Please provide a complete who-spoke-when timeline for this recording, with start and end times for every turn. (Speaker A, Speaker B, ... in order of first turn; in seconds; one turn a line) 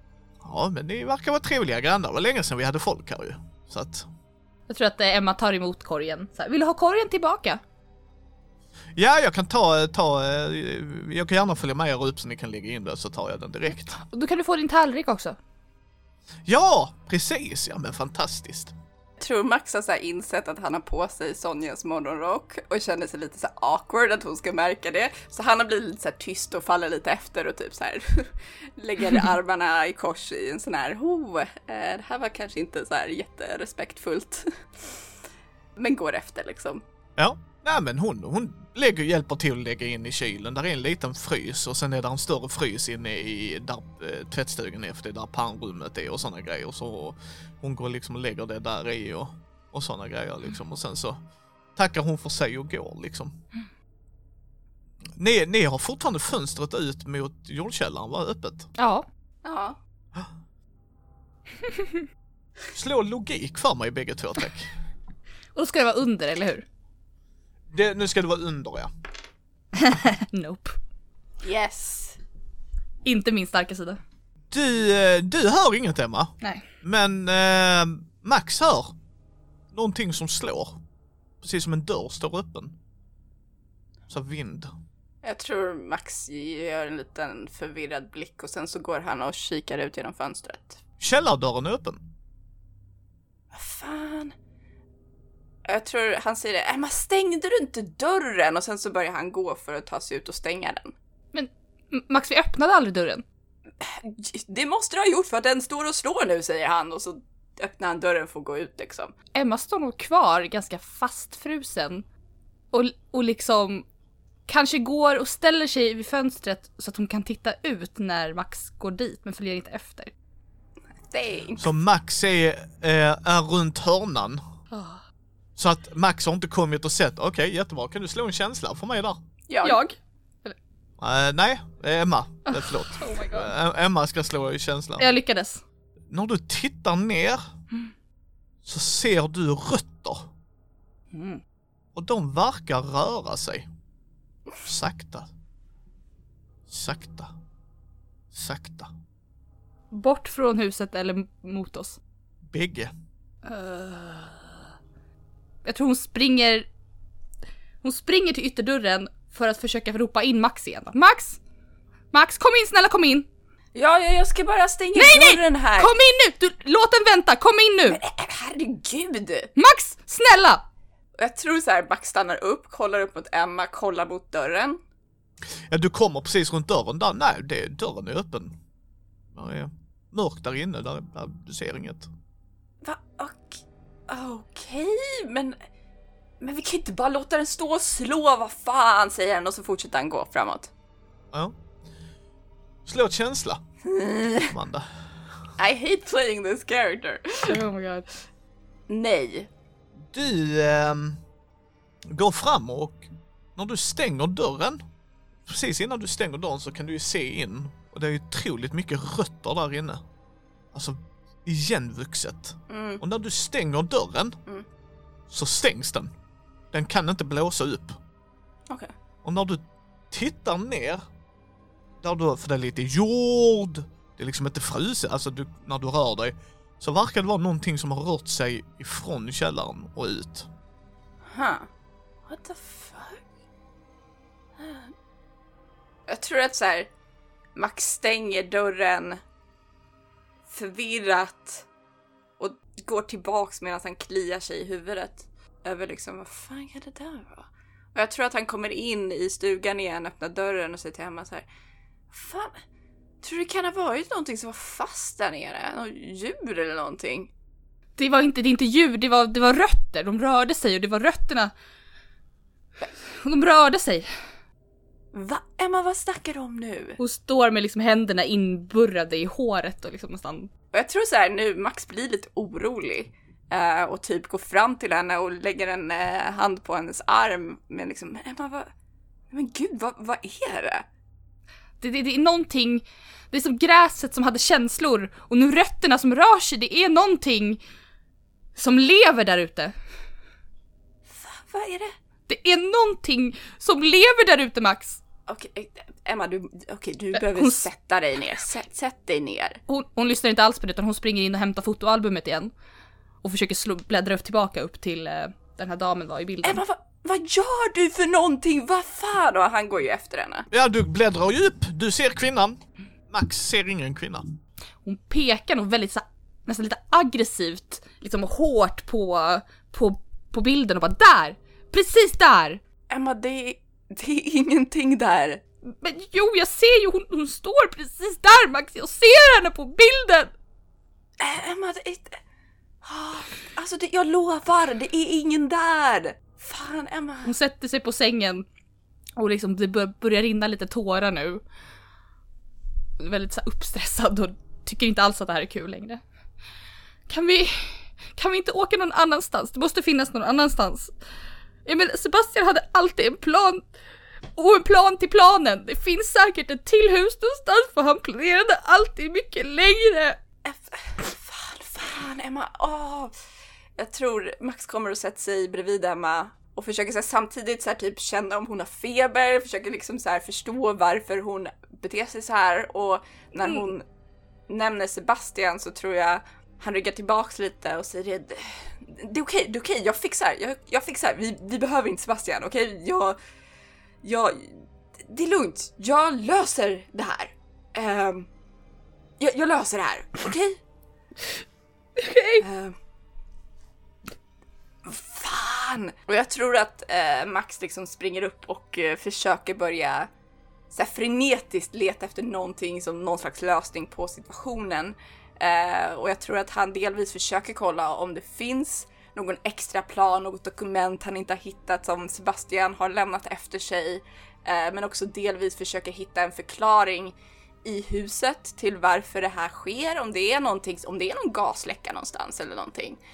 Speaker A: 0.4-4.1
Speaker B: 4.7-7.6
Speaker A: 8.9-13.9
Speaker B: 13.9-15.4
Speaker A: 16.4-18.7
Speaker C: 19.2-35.0
Speaker C: 35.8-36.8
Speaker A: 37.2-51.2
Speaker A: 51.8-53.3
Speaker A: 55.2-58.7
Speaker B: 58.8-59.0
Speaker C: 59.4-59.8
Speaker B: 61.7-62.0
Speaker A: 62.7-64.7
Speaker B: 65.5-66.6
Speaker A: 67.7-68.9
Speaker B: 69.8-70.8
Speaker C: 71.4-72.2
Speaker B: 73.0-74.0
Speaker A: 74.5-78.9
Speaker A: 79.7-80.8
Speaker A: 81.4-82.8
Speaker A: 84.1-84.7
Speaker C: 85.2-90.8
Speaker A: 91.0-92.0
Speaker C: 93.5-94.3
Speaker C: 95.7-100.9
Speaker B: 101.3-103.2
Speaker C: 103.8-109.1
Speaker B: 109.3-112.0
Speaker B: 112.7-113.8
Speaker B: 114.5-120.1
Speaker C: 121.1-121.7
Speaker A: 121.6-124.4
Speaker B: 124.7-125.0
Speaker A: 125.5-129.2
Speaker C: 129.5-129.8
Speaker B: 129.6-130.6
Speaker A: 131.0-135.0
Speaker B: 132.4-133.5
Speaker B: 135.0-135.6
Speaker A: 136.1-137.5
Speaker A: 138.6-140.3
Speaker B: 141.1-141.4
Speaker A: 141.9-143.7
Speaker A: 144.6-145.3
Speaker A: 146.7-147.3
Speaker A: 148.3-148.9
Speaker B: 149.9-152.0
Speaker A: 152.4-152.9
Speaker B: 153.4-154.6
Speaker B: 155.6-156.7
Speaker B: 157.8-161.4
Speaker B: 162.1-163.3
Speaker C: 163.7-165.9
Speaker B: 164.9-168.0
Speaker C: 167.9-169.5
Speaker B: 169.6-170.6
Speaker C: 171.2-174.8
Speaker A: 175.7-178.6
Speaker A: 179.3-182.1
Speaker C: 182.8-185.6
Speaker C: 186.4-190.7
Speaker A: 192.8-193.6
Speaker C: 193.8-194.5
Speaker A: 194.5-194.9
Speaker C: 195.6-197.6
Speaker B: 197.5-198.1
Speaker C: 198.9-199.5
Speaker A: 200.0-201.2
Speaker A: 202.1-204.8
Speaker A: 205.5-210.0
Speaker A: 210.7-214.4
Speaker C: 212.7-213.0
Speaker A: 215.3-216.1
Speaker A: 216.7-218.0
Speaker A: 219.2-221.0
Speaker A: 222.0-230.5
Speaker C: 231.3-231.7
Speaker C: 232.3-233.2
Speaker C: 234.6-234.9
Speaker C: 236.1-236.9
Speaker C: 237.6-239.2
Speaker C: 240.5-241.7
Speaker C: 242.4-251.4
Speaker C: 252.1-252.6
Speaker C: 253.2-257.3
Speaker B: 258.0-261.5
Speaker B: 263.1-264.1
Speaker C: 265.1-267.0
Speaker B: 267.0-270.5
Speaker C: 270.7-278.7
Speaker C: 279.3-280.9
Speaker B: 281.8-287.6
Speaker B: 288.6-289.7
Speaker C: 291.1-291.9
Speaker B: 292.3-295.0
Speaker C: 295.3-299.6
Speaker B: 297.1-297.7
Speaker B: 299.7-302.5
Speaker B: 303.2-306.6
Speaker C: 306.4-310.5
Speaker A: 310.5-314.2
Speaker B: 314.8-322.6
Speaker C: 322.9-325.4
Speaker B: 325.7-330.3
Speaker C: 331.2-332.2
Speaker C: 332.8-337.3
Speaker B: 337.2-338.4
Speaker B: 339.2-341.4
Speaker B: 343.0-346.0
Speaker B: 347.1-350.9
Speaker B: 351.6-353.6
Speaker B: 354.3-360.2
Speaker C: 360.4-363.1
Speaker C: 363.8-373.8
Speaker C: 374.5-383.2
Speaker C: 384.0-388.3
Speaker C: 389.2-390.6
Speaker B: 392.0-392.4
Speaker C: 392.4-392.7
Speaker C: 394.8-400.1
Speaker C: 400.7-423.0